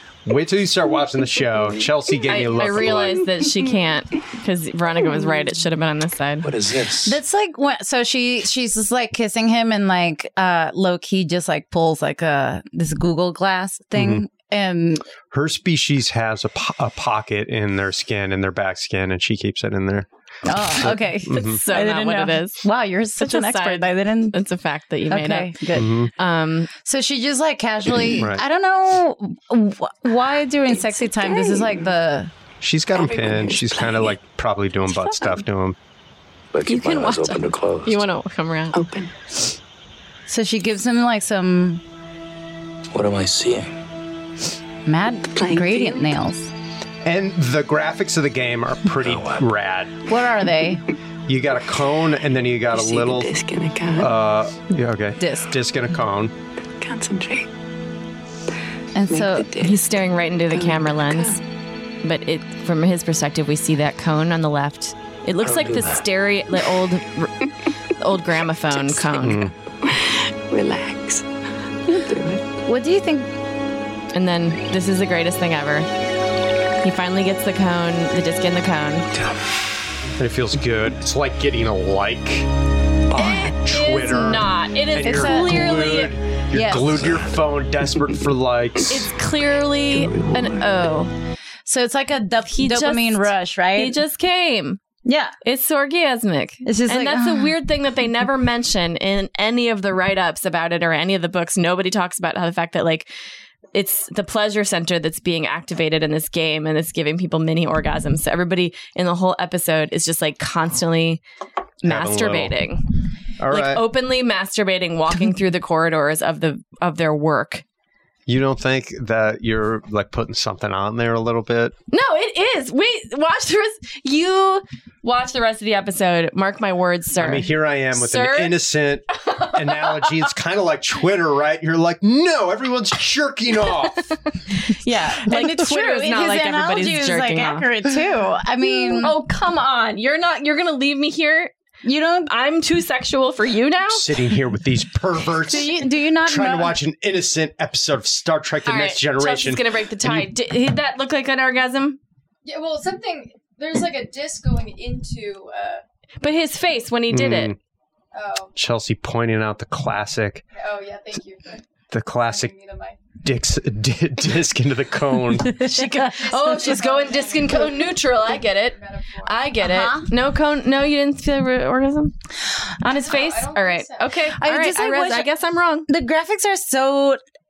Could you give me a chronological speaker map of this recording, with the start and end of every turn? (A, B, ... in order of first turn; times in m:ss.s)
0:00.2-0:03.3 A
0:02.3-0:06.5 B
0:06.5-0:07.1 C
0:07.0-0:15.0 D
0:14.0-0:14.2 A
0:15.3-0:21.6 A
0:20.4-0:24.4 D
0:21.3-0:22.6 B
0:23.2-0:25.6 B
0:25.1-0:25.9 D
0:25.7-0:26.1 A
0:26.2-0:26.7 B
0:26.8-0:32.3 D
0:28.2-0:28.4 A
0:31.2-0:31.8 E
0:32.6-0:35.8 A
0:32.9-0:34.2 E
0:36.5-0:38.0 C
0:36.7-0:38.8 B
0:38.7-0:39.1 E
0:40.3-0:41.8 D
0:42.9-0:43.7 C
0:44.9-0:46.5 D
0:45.3-0:46.2 E
0:47.0-0:50.0 A
0:49.0-0:49.4 C
0:50.1-0:50.8 D
0:51.3-0:53.4 A
0:52.7-0:54.2 E
0:54.0-0:56.3 A
0:55.2-0:55.5 D
0:56.8-0:57.5 E
0:59.0-0:59.5 D
0:59.1-0:59.8 E
0:59.6-1:01.4 B
1:00.5-1:01.4 E
1:02.0-1:07.4 B
1:08.0-1:09.5 B
1:09.1-1:09.5 A
1:09.8-1:11.2 E
1:11.9-1:12.4 E
1:12.7-1:13.3 D
1:14.1-1:15.9 B
1:16.8-1:19.1 B
1:20.2-1:22.5 A
1:23.1-1:29.1 A
1:23.2-1:26.1 B
1:25.0-1:25.8 D
1:26.5-1:27.0 D
1:28.9-1:31.1 B
1:30.1-1:30.4 E
1:31.7-1:34.0 D
1:32.5-1:34.8 B
1:35.0-1:35.3 D
1:35.4-1:43.1 B
1:36.6-1:37.6 D
1:43.7-1:51.2 B
1:51.8-1:52.8 B
1:51.8-1:52.6 A
1:53.4-1:53.8 A
1:53.5-1:57.6 B
1:58.3-2:01.7 A
2:01.9-2:08.6 B
2:07.2-2:14.1 A
2:09.2-2:10.2 B
2:14.1-2:17.7 B
2:14.8-2:19.2 D
2:18.6-2:21.5 B
2:21.8-2:22.3 D
2:22.3-2:24.1 B
2:23.9-2:30.3 A
2:25.4-2:26.8 D
2:28.6-2:32.0 B
2:32.4-2:35.8 F
2:36.2-2:37.5 B
2:37.1-2:37.6 A
2:38.1-2:38.5 F
2:38.6-2:40.4 A
2:40.6-2:41.6 F
2:41.9-2:42.6 A
2:42.2-2:43.0 F
2:43.2-2:45.7 A
2:45.5-2:46.6 D
2:45.7-2:52.1 B
2:46.2-2:49.5 F
2:49.6-2:50.1 D
2:52.8-2:53.2 D
2:53.0-2:55.9 B
2:53.0-2:54.2 F
2:54.4-2:55.3 D
2:55.9-2:57.2 D